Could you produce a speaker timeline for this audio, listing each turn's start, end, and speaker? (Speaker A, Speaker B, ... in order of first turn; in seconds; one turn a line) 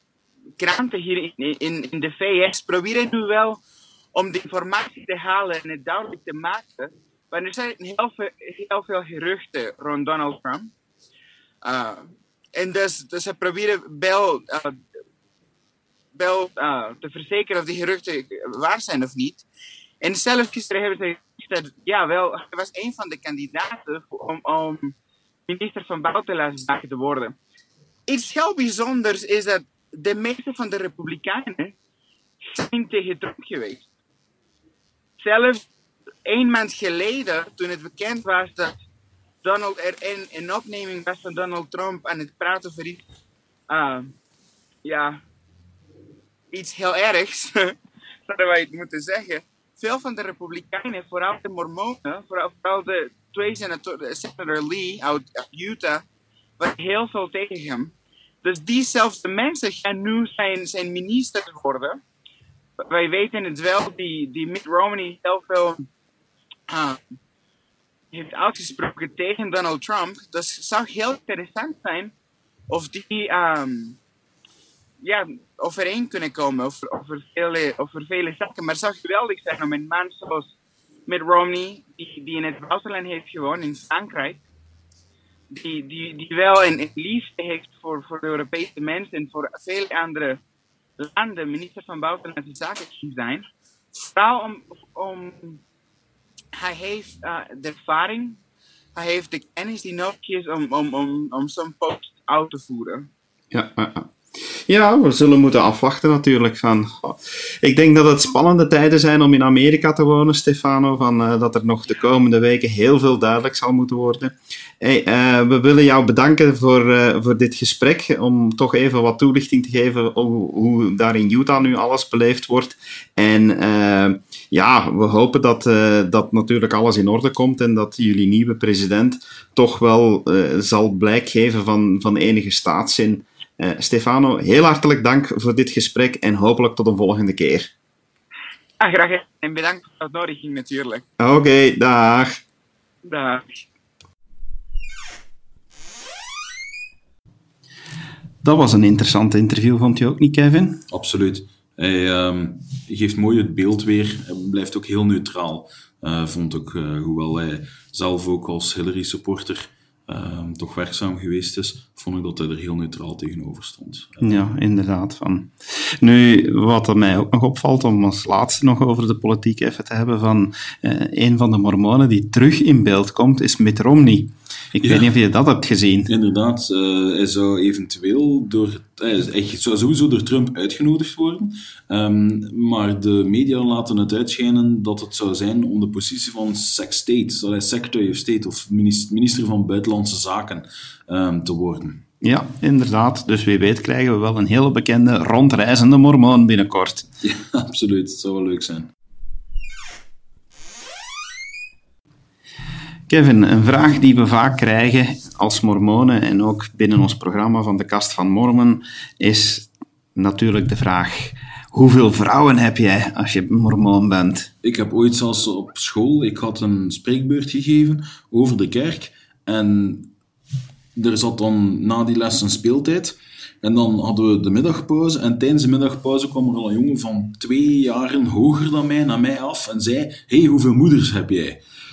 Speaker A: 0.6-3.6
Speaker A: 4.1-10.7
Speaker A: 11.6-14.8
Speaker A: 16.1-19.5
Speaker A: 20.0-24.9
Speaker A: 25.5-27.4
Speaker A: 28.1-31.8
Speaker A: 32.4-33.9
Speaker A: 35.2-35.6
Speaker A: 36.2-38.8
Speaker A: 39.4-43.1
Speaker A: 43.7-44.1
Speaker A: 44.8-45.2
Speaker A: 46.5-47.8
Speaker A: 48.3-56.0
Speaker A: 56.6-62.0
Speaker A: 62.8-65.9
Speaker A: 66.7-67.2
Speaker A: 68.1-72.1
Speaker A: 72.7-74.0
Speaker A: 75.0-80.5
Speaker A: 81.1-84.4
Speaker A: 85.5-90.4
Speaker A: 91.0-95.6
Speaker A: 96.5-98.4
Speaker A: 99.0-103.1
Speaker B: 103.5-137.7
Speaker A: 138.8-141.1
Speaker B: 141.2-142.3
Speaker A: 143.1-143.7
Speaker B: 148.4-150.8
Speaker C: 150.9-164.4
Speaker B: 164.2-176.1
Speaker C: 174.8-175.1
Speaker C: 176.1-192.0
Speaker B: 192.2-197.1
Speaker C: 197.2-198.9
Speaker B: 203.1-214.5
Speaker C: 214.6-220.1
Speaker C: 220.9-231.6